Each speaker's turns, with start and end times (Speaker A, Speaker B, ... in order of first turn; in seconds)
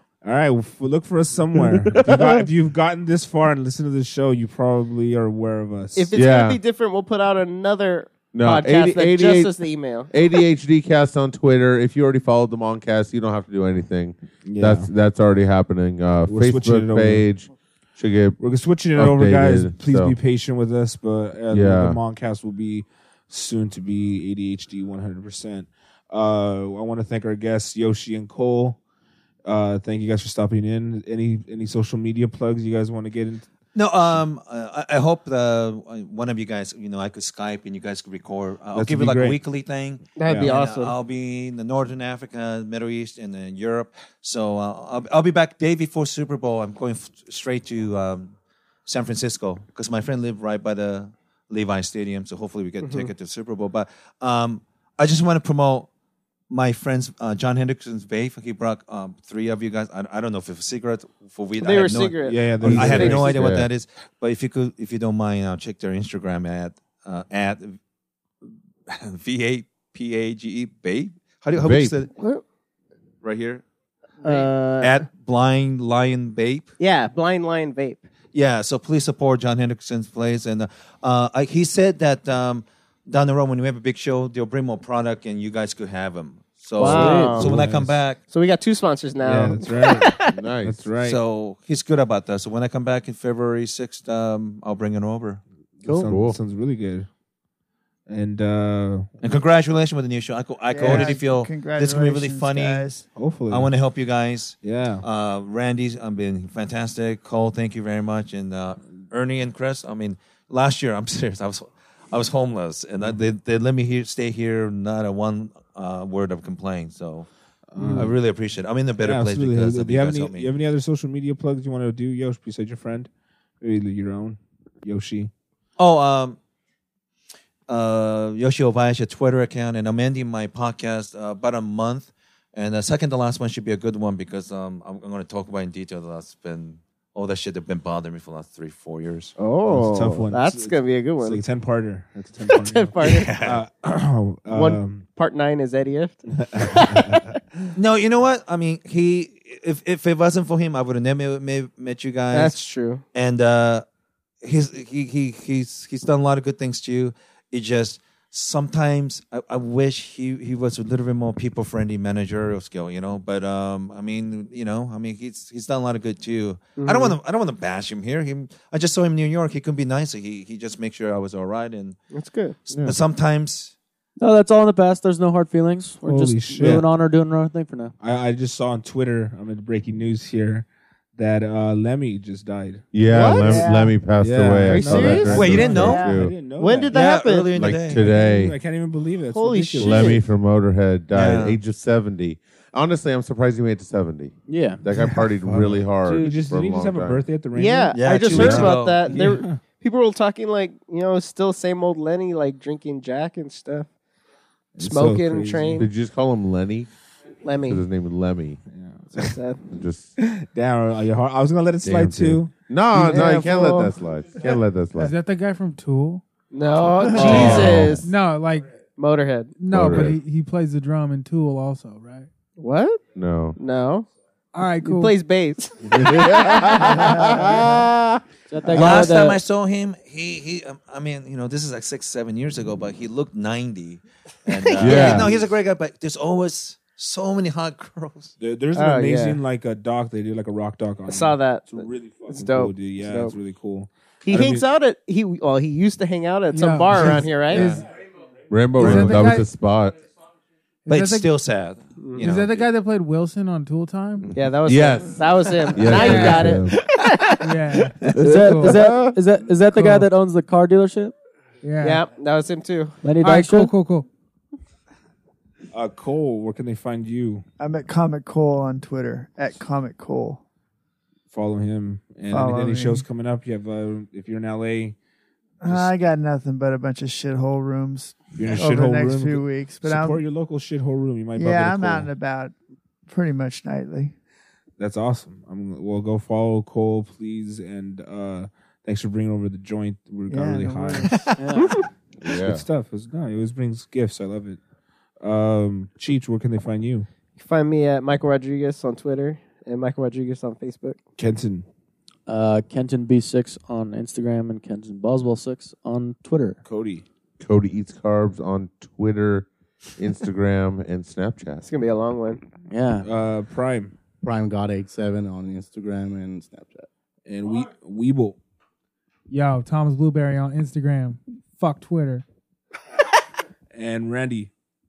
Speaker A: 0.2-6.1, 14.4-14.9, 16.3-17.2, 18.4-28.8, 29.4-33.5, 38.7-39.4, 40.2-40.5, 62.2-63.4, 86.8-88.0, 89.2-91.2, 95.8-97.1, 98.1-99.1, 100.8-101.1, 103.1-103.7, 104.6-105.0, 117.7-118.2, 119.0-123.1, 123.6-125.3, 139.7-145.1, 146.3-147.3, 176.0-176.9, 178.0-186.9, 187.9-190.2, 194.9-199.6, 204.8-205.9, 208.7-209.4, 210.2-213.4, 217.1-217.9, 235.1-235.4, 238.4-244.7, 247.0-247.8, 265.7-267.4, 271.3-274.9, 275.6-275.9, 278.3-282.1, 284.8-291.3, 292.2-294.6, 295.2-297.1, 301.2-301.7, 306.6-307.0, 313.0-313.9, 317.2-318.4, 323.7-324.5
Speaker B: 1.8-2.4, 6.1-6.6, 8.3-18.4, 18.9-20.2, 21.5-22.0, 62.7-63.7, 71.5-71.9, 90.3-90.9, 96.0-96.4, 172.7-173.0, 182.9-186.3, 187.5-188.6, 189.8-197.2, 205.8-206.9, 207.6-208.6, 209.7-210.1, 211.8-215.1, 217.1-218.0, 219.7-220.2, 223.1-223.6, 225.8-228.2, 234.8-235.3, 248.5-250.0, 254.2-256.8, 258.2-259.2, 292.2-292.6, 307.4-311.6
Speaker C: 6.0-10.1, 40.1-41.0, 52.8-53.1, 61.6-63.3, 72.1-72.4, 74.2-75.0, 76.8-78.1, 86.8-87.5, 88.2-90.4, 139.4-141.4, 142.5-143.3, 144.5-147.4, 152.3-153.0, 166.8-167.2, 172.1-172.6, 184.7-185.5, 186.4-187.6, 189.3-190.2, 197.5-203.9, 204.8-205.9, 207.4-207.8, 209.2-209.6, 212.9-213.9, 216.5-218.1, 218.9-219.6, 222.6-223.0, 223.6-224.1, 224.8-227.5, 228.7-229.0, 234.5-235.3, 238.7-239.4, 241.1-243.4, 244.2-247.7, 252.0-252.2, 254.3-257.4, 261.8-263.0, 297.4-301.0, 311.6-312.4
Speaker D: 33.7-48.3, 48.9-55.9, 56.5-67.8, 68.9-72.1, 73.2-73.6, 74.3-76.7, 78.3-88.2, 91.0-95.4, 99.2-102.9, 103.5-117.3, 117.8-120.5, 125.8-126.4, 127.7-139.3, 143.0-143.6, 147.7-152.6, 153.1-153.8, 154.4-172.0, 172.7-173.7, 185.3-186.0, 186.9-188.0, 191.1-191.6, 197.9-199.1, 217.2-217.9, 228.7-238.3, 248.8-249.2, 250.9-252.7
Speaker E: 86.9-87.3, 174.2-177.9, 194.5-194.8, 228.5-229.4, 258.1-261.1, 263.0-263.7, 291.4-291.8, 302.3-306.6, 312.7-313.1
Speaker F: 100.7-103.0, 183.1-183.9, 185.8-186.1, 267.6-270.4, 272.3-273.1, 275.6-280.2, 281.4-282.5, 283.1-284.1, 290.3-291.2
Speaker G: 214.9-216.2, 217.0-218.8, 219.6-222.3, 224.5-225.2, 246.5-247.9, 248.8-249.5, 250.8-251.3, 252.2-254.4, 255.9-256.6, 257.4-258.8, 259.7-260.0, 261.6-262.0, 263.1-264.1, 319.3-322.2
Speaker H: 314.2-316.9